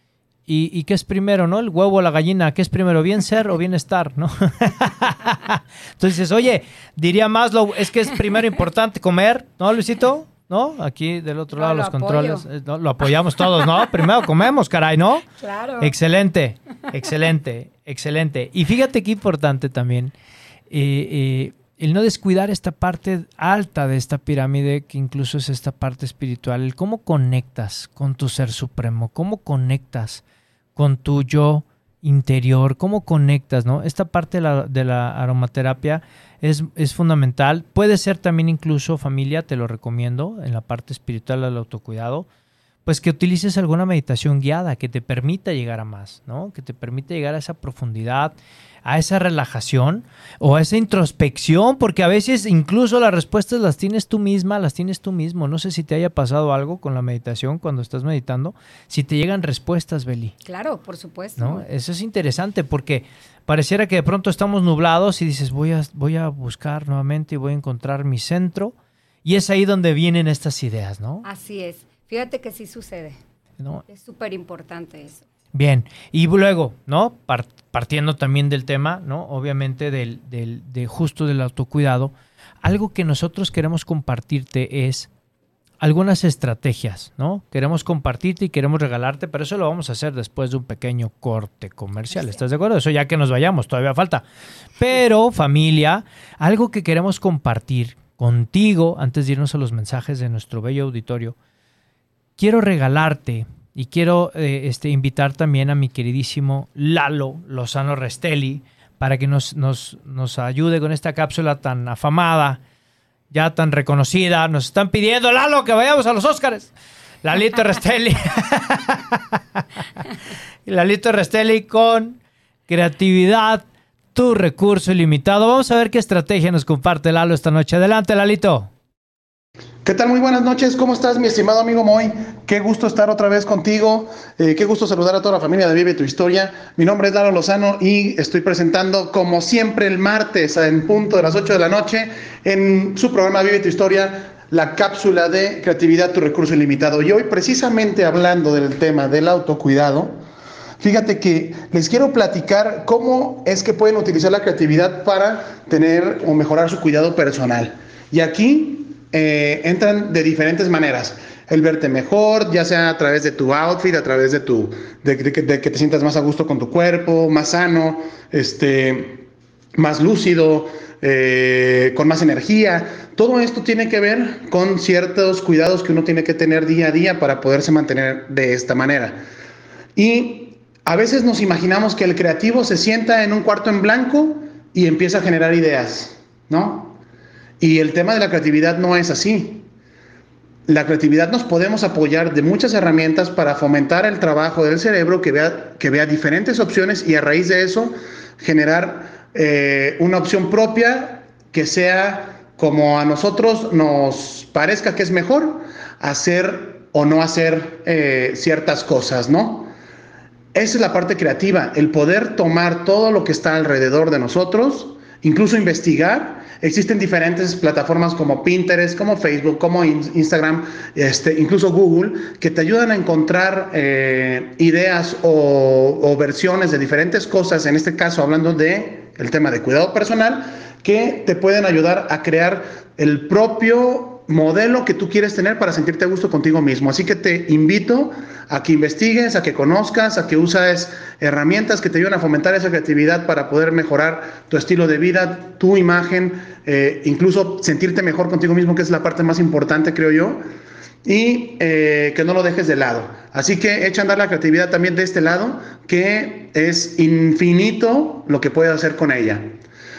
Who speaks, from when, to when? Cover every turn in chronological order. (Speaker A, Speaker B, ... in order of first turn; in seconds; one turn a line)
Speaker A: 0.5-15.3
Speaker B: 11.6-12.5
Speaker B: 15.4-15.9
Speaker A: 15.8-20.1
Speaker A: 20.7-30.2
Speaker A: 30.8-42.3
Speaker A: 42.9-60.4
Speaker B: 60.5-61.6
Speaker A: 61.4-68.7
Speaker A: 69.2-71.2
Speaker B: 71.2-73.2
Speaker A: 73.6-73.8
Speaker B: 73.9-75.2
Speaker A: 75.5-82.1
Speaker A: 82.6-85.1
Speaker A: 85.8-94.2
Speaker A: 94.8-101.3
Speaker A: 102.4-112.6
Speaker A: 113.3-116.7
Speaker A: 117.2-119.6
Speaker A: 120.7-128.7
Speaker C: 129.8-150.2
Speaker C: 150.8-179.2
Speaker C: 180.0-187.0
Speaker C: 187.6-189.7
Speaker C: 190.7-209.7
Speaker C: 210.5-250.4
Speaker C: 251.1-259.6